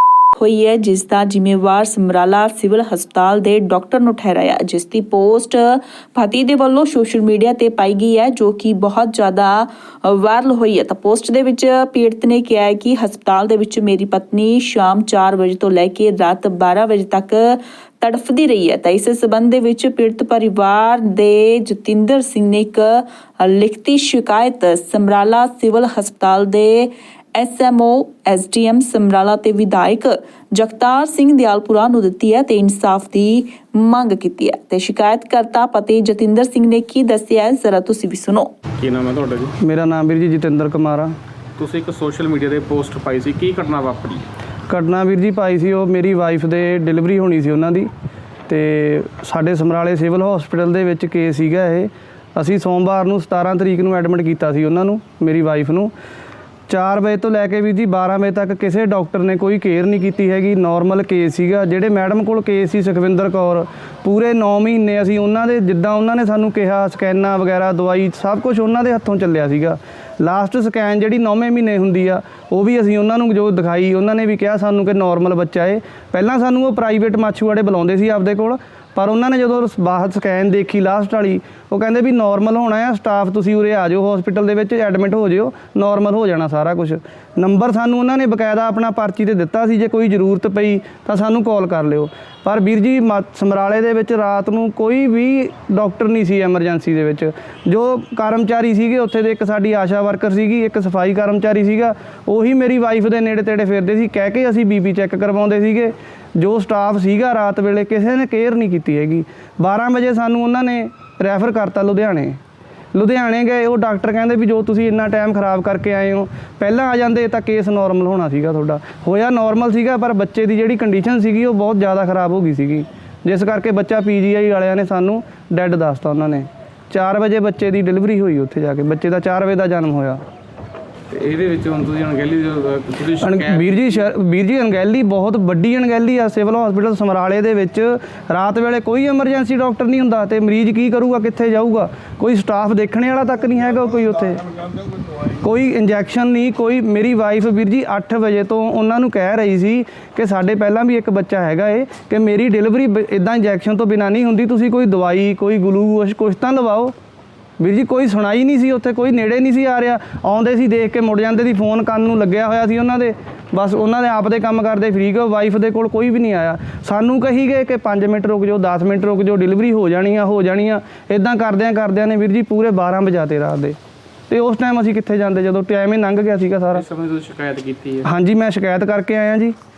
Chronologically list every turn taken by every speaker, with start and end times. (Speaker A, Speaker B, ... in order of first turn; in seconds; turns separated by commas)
Speaker A: 0.3-38.5, Speaker B: 38.8-39.5, Speaker C: 39.6-41.1, Speaker B: 41.6-44.2, Speaker C: 44.7-47.9, Speaker C: 48.5-55.9, Speaker C: 56.7-112.4, Speaker C: 112.9-130.2, Speaker B: 131.1-134.0, Speaker C: 133.2-144.4, Speaker C: 145.4-156.9, Speaker C: 157.6-173.8, Speaker C: 174.3-176.8, Speaker B: 176.7-178.1, Speaker C: 178.0-179.5